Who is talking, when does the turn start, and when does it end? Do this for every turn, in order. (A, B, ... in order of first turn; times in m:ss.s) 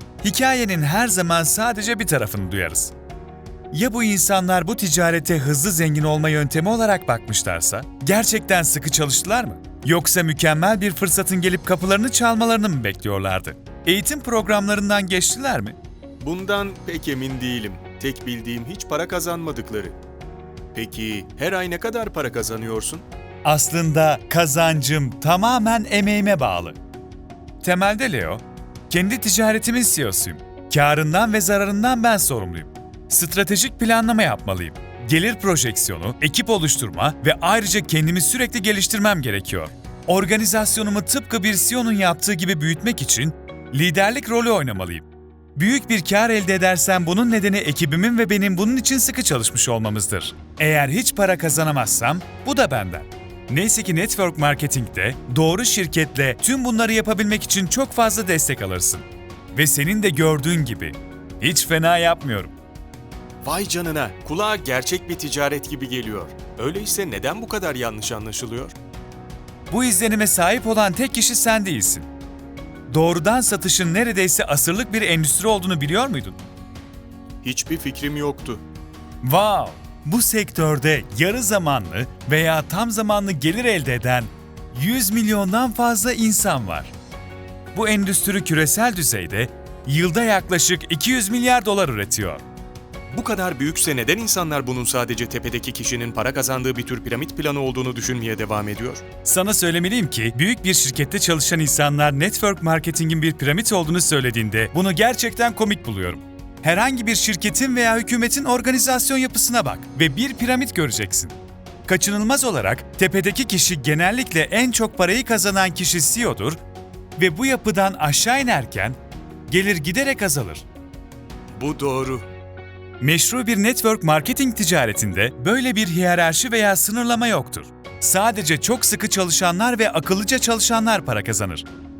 0:00.2-0:02.9 A
0:03.7-0:15.8 A
0:16.2-0:20.0 B
0:20.7-0:23.0 B
0:23.4-0:26.8 A
0:27.6-1:02.5 A
1:03.4-1:08.7 B
1:09.7-1:12.1 A
1:12.9-1:16.4 A
1:17.4-1:18.6 B
1:19.2-1:26.9 A
1:27.7-1:32.4 A
1:33.1-1:39.0 B
1:39.2-1:51.3 A
1:51.9-1:56.6 A
1:57.2-2:00.6 A
2:01.5-2:02.3 B
2:03.0-2:11.6 A